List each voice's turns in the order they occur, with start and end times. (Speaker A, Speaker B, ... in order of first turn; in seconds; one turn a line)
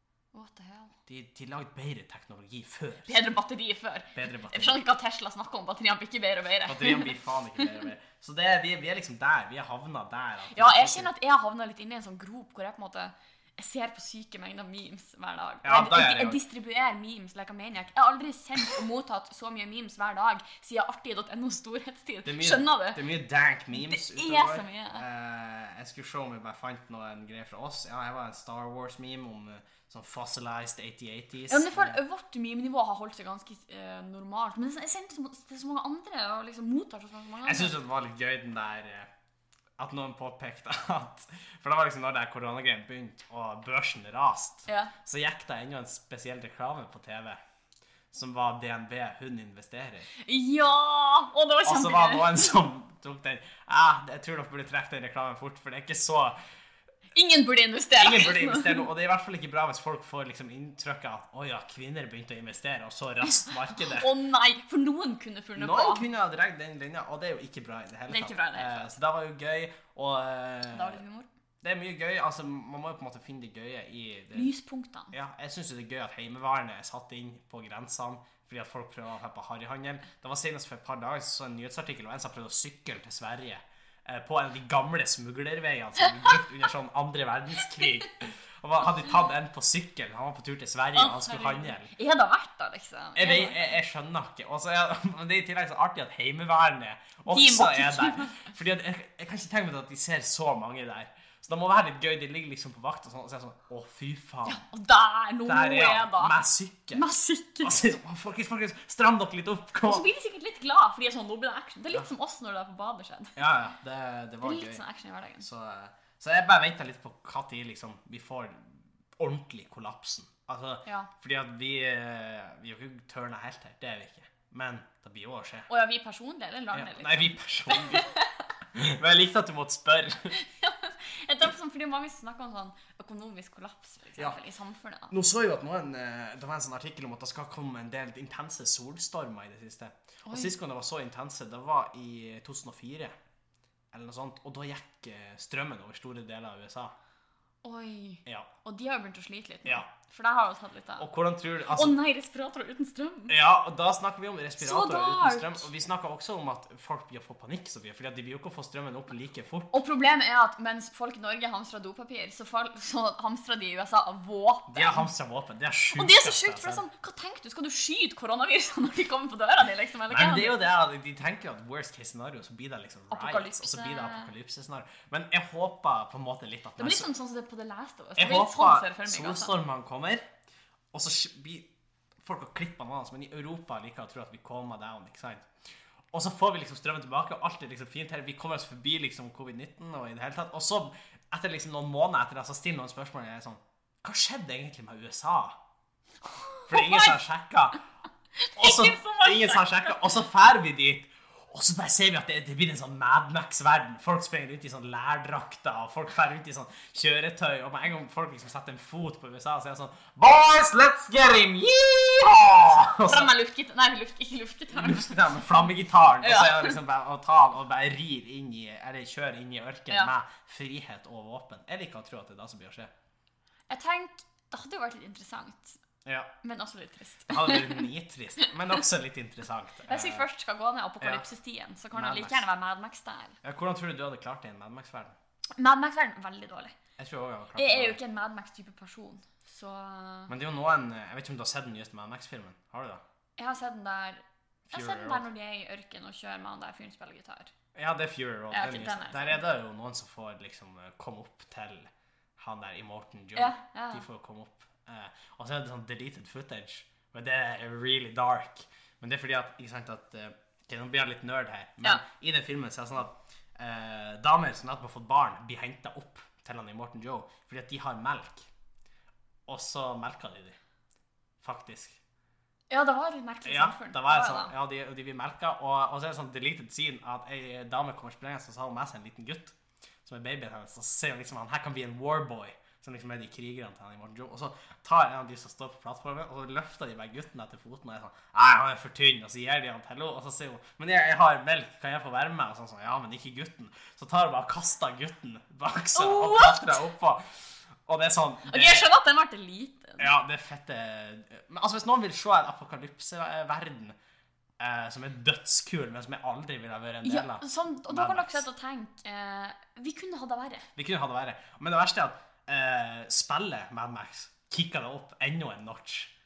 Speaker A: 0.3-0.9
Speaker B: 1.1-3.2
Speaker A: 3.1-7.7
Speaker B: 4.1-4.8
Speaker B: 6.7-11.1
Speaker A: 10.5-23.0
Speaker B: 15.6-16.4
Speaker B: 22.2-32.0
Speaker A: 23.7-25.0
Speaker A: 31.5-37.7
Speaker B: 37.4-39.1
Speaker B: 39.8-47.4
Speaker A: 44.7-44.9
Speaker B: 48.1-50.1
Speaker A: 50.2-52.5
Speaker B: 51.6-56.3
Speaker A: 57.1-58.9
Speaker B: 58.0-64.1
Speaker A: 63.5-66.0
Speaker B: 65.5-71.0
Speaker A: 68.1-68.9
Speaker A: 70.7-71.3
Speaker B: 71.6-74.5
Speaker A: 74.3-75.1
Speaker B: 75.1-91.9
Speaker A: 90.9-93.7
Speaker B: 93.2-104.6
Speaker A: 97.3-98.5
Speaker A: 104.4-106.3
Speaker B: 105.5-107.0
Speaker A: 106.9-107.8
Speaker B: 107.6-110.1
Speaker A: 109.8-113.3
Speaker B: 113.3-114.8
Speaker A: 114.4-115.5
Speaker B: 115.4-125.7
Speaker A: 125.7-128.5
Speaker B: 126.7-128.1
Speaker B: 128.7-130.4
Speaker A: 130.3-135.1
Speaker B: 135.1-143.1
Speaker A: 140.2-140.5
Speaker B: 143.9-146.9
Speaker A: 147.6-151.1
Speaker B: 151.0-152.0
Speaker A: 151.7-153.3
Speaker B: 153.3-159.8
Speaker A: 154.6-155.7
Speaker A: 159.7-165.1
Speaker B: 164.7-166.8
Speaker A: 165.9-170.6
Speaker B: 170.1-177.1
Speaker A: 173.1-174.3
Speaker A: 176.8-179.5
Speaker B: 178.2-180.2
Speaker B: 180.9-181.7
Speaker B: 182.2-185.5
Speaker B: 186.1-195.6
Speaker A: 196.2-197.2
Speaker B: 196.7-197.8
Speaker A: 198.4-200.0
Speaker B: 198.6-213.3
Speaker A: 213.0-216.8
Speaker B: 214.7-222.9
Speaker A: 223.7-225.8
Speaker B: 226.0-226.3
Speaker A: 226.4-227.8
Speaker B: 227.3-230.2
Speaker A: 229.9-233.4
Speaker B: 231.0-231.3
Speaker B: 231.9-232.4
Speaker B: 233.4-235.2
Speaker A: 235.5-236.8
Speaker B: 237.0-238.0
Speaker A: 237.6-240.3
Speaker B: 240.3-243.0
Speaker A: 243.4-247.5
Speaker B: 244.7-245.2
Speaker B: 247.7-268.5
Speaker A: 248.5-249.4
Speaker A: 253.3-254.0
Speaker B: 269.5-270.6
Speaker B: 271.4-272.0
Speaker A: 272.7-274.5
Speaker B: 273.4-298.9
Speaker A: 295.9-296.8
Speaker A: 298.5-300.1
Speaker B: 300.0-303.9
Speaker B: 304.6-308.4
Speaker A: 307.0-310.7
Speaker B: 310.8-316.1